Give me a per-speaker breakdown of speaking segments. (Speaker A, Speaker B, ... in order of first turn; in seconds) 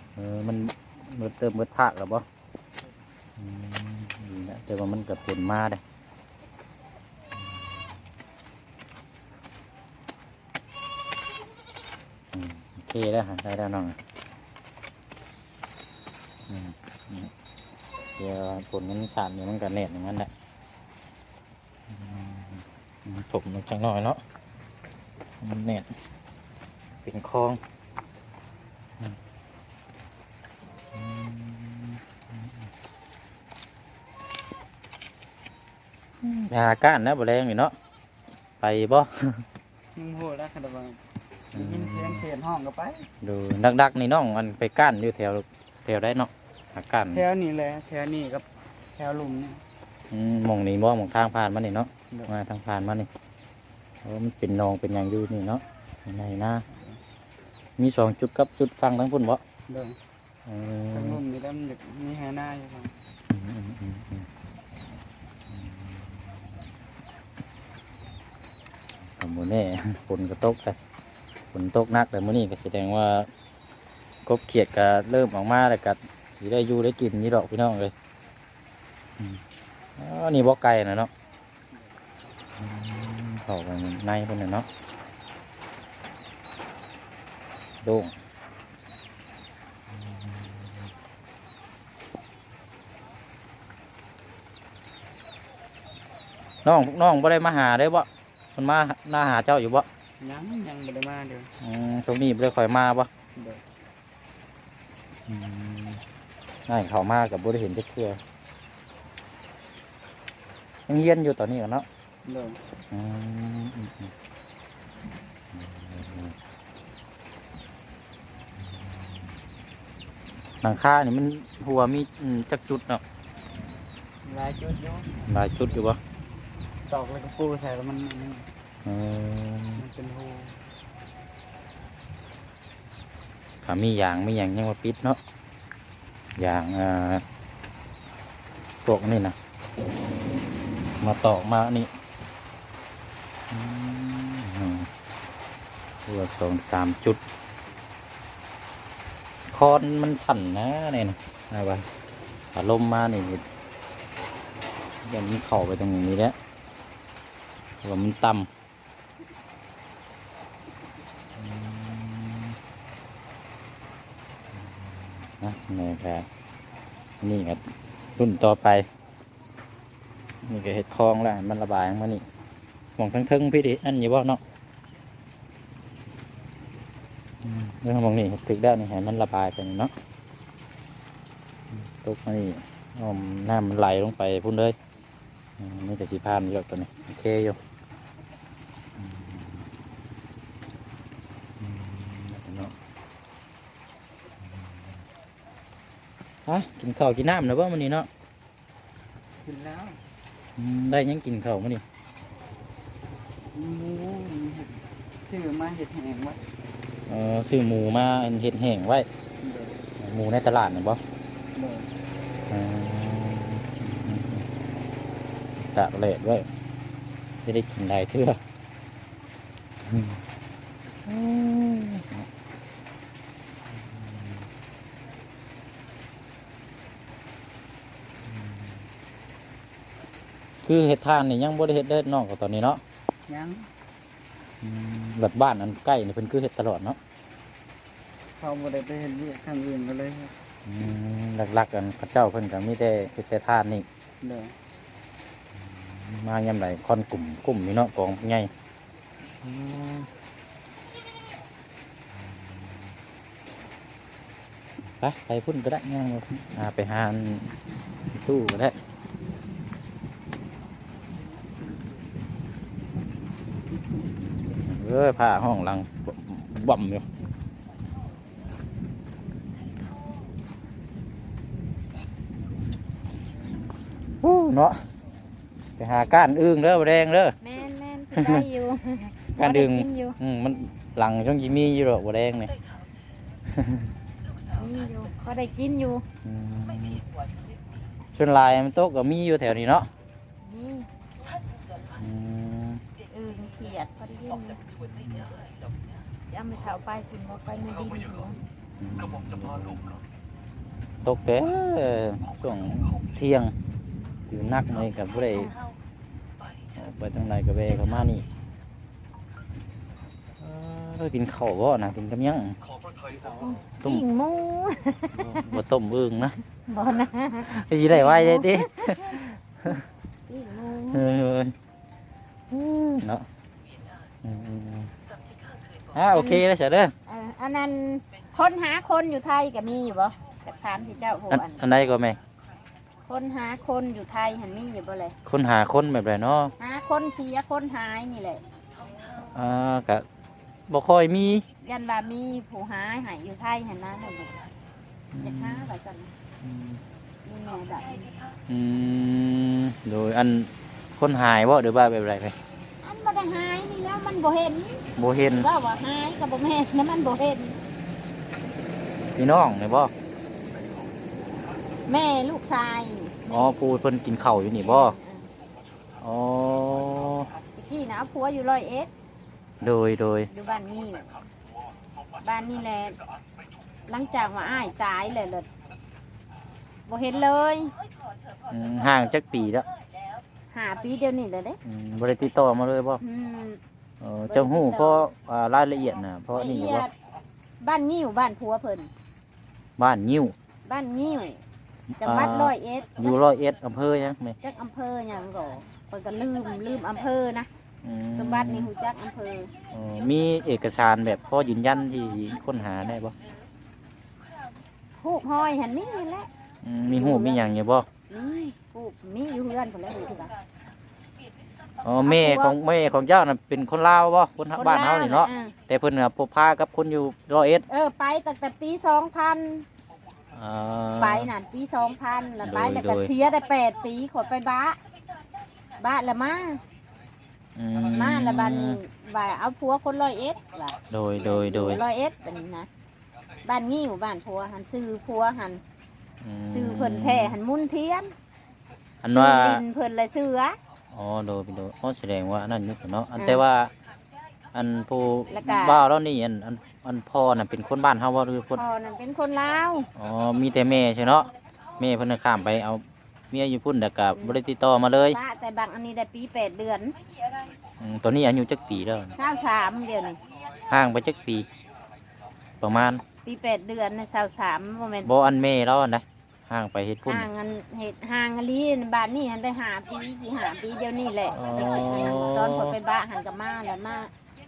Speaker A: 0.2-2.2, 3.4-5.8, 12.3-14.0, 16.5-17.3, 18.2-20.3, 21.9-24.2, 25.4-25.9, 27.1-27.6, 30.9-32.5, 36.2-37.8, 38.6-39.5, 41.5-42.2, 43.2-47.2, 50.1-53.1, 54.0-56.6, 57.8-59.4, 60.5-61.2, 63.3-64.3, 65.5-66.1, 69.2-70.8, 71.5-73.3, 74.2-77.9, 79.2-79.4, 80.0-81.1, 82.6-84.7, 87.8-88.1, 89.9-90.7, 96.6-99.9, 101.6-103.1, 105.3-106.0, 106.7-108.2, 110.9-111.9, 112.9-114.1, 115.5-116.3, 120.6-123.0, 125.3-126.0, 128.8-129.8, 133.6-135.2, 136.4-137.2, 138.8-139.4, 141.0-141.9, 143.5-144.9, 146.1-147.2, 149.5-151.8, 152.5-153.4, 155.0-156.3, 157.8-158.5, 161.4-162.6, 164.6-166.3, 167.2-167.6, 168.2-168.9, 170.4-172.2, 173.0-174.4, 177.4-179.9, 181.7-184.8, 185.6-187.6, 189.0-189.7, 191.6-192.8, 194.5-194.8, 196.5-198.1, 200.6-201.8, 207.1-209.1, 210.0-211.0, 212.5-214.5, 215.6-216.5, 217.4-218.4, 219.8-220.2, 221.1-222.3, 223.7-224.5, 228.2-228.8, 230.6-232.8, 234.6-237.0, 240.7-243.8, 245.6-248.5, 249.4-250.1, 255.0-257.6, 258.1-258.8, 264.5-267.1, 274.2-274.8, 275.8-277.4, 278.2-278.5, 279.3-282.5, 283.5-283.9, 286.2-287.0, 288.1-289.9, 291.9-292.8, 294.9-295.3, 298.8-300.0, 301.0-303.5, 304.3-305.5, 306.8-308.2, 310.4-312.6, 315.2-316.4, 317.5-319.8, 320.9-321.6, 322.5-323.2, 324.2-324.9, 325.9-326.9, 331.3-332.2, 335.2-336.5, 339.2-340.1, 340.7-341.4, 345.1-345.7, 346.4-346.8, 348.5-352.4, 355.0-355.5, 359.2-359.9, 363.3-365.0, 366.0-367.3, 369.6-370.3, 378.5-379.7, 381.6-383.0, 384.0-386.9, 389.8-390.4, 391.9-394.4, 397.8-398.7, 399.7-403.1, 406.6-407.9, 411.8-417.6, 420.3-421.3, 422.4-423.1, 427.6-428.8, 430.9-431.8, 436.2-437.4, 439.0-439.6, 440.9-443.7, 444.5-448.6, 450.0-455.2, 457.8-459.1, 460.7-461.5, 462.6-463.0, 465.0-467.3, 471.3-472.8
Speaker B: 40.0-41.0, 41.5-43.1, 47.1-49.6, 56.7-57.0, 59.7-60.0, 60.9-63.0, 100.2-101.5, 103.4-103.6, 112.2-112.6, 124.2-125.7, 126.9-128.5, 129.8-130.6, 199.4-200.0, 203.5-206.4, 209.4-209.8, 211.5-211.9, 233.3-233.7, 238.4-240.3, 244.2-244.6, 313.1-313.5
Speaker C: 277.4-280.2, 284.5-286.1, 290.4-290.9, 293.1-294.6, 296.3-298.4, 313.4-315.6, 316.6-319.2, 320.3-321.0, 326.1-326.4, 327.1-331.6, 333.1-335.1, 336.6-338.4, 341.6-344.4, 345.2-346.1, 347.2-348.2, 352.8-357.6, 361.9-363.5, 364.3-365.3, 367.6-368.9, 370.3-371.2, 372.2-373.0, 373.9-375.5, 376.9-377.7, 380.5-381.6, 383.0-383.6, 384.3-385.1, 386.3-386.9, 387.6-388.9, 390.6-391.4, 392.0-393.2, 394.4-397.5, 398.2-399.5, 405.0-406.3, 406.9-407.5, 408.1-410.3, 412.0-412.6, 414.5-415.5, 417.7-419.7, 421.0-424.8, 425.8-426.6, 427.9-432.7, 433.4-435.6, 436.5-438.1, 439.1-440.6, 443.2-443.4, 445.3-445.9, 448.6-449.9, 455.1-456.9, 459.1-460.2, 463.2-465.1, 467.1-474.1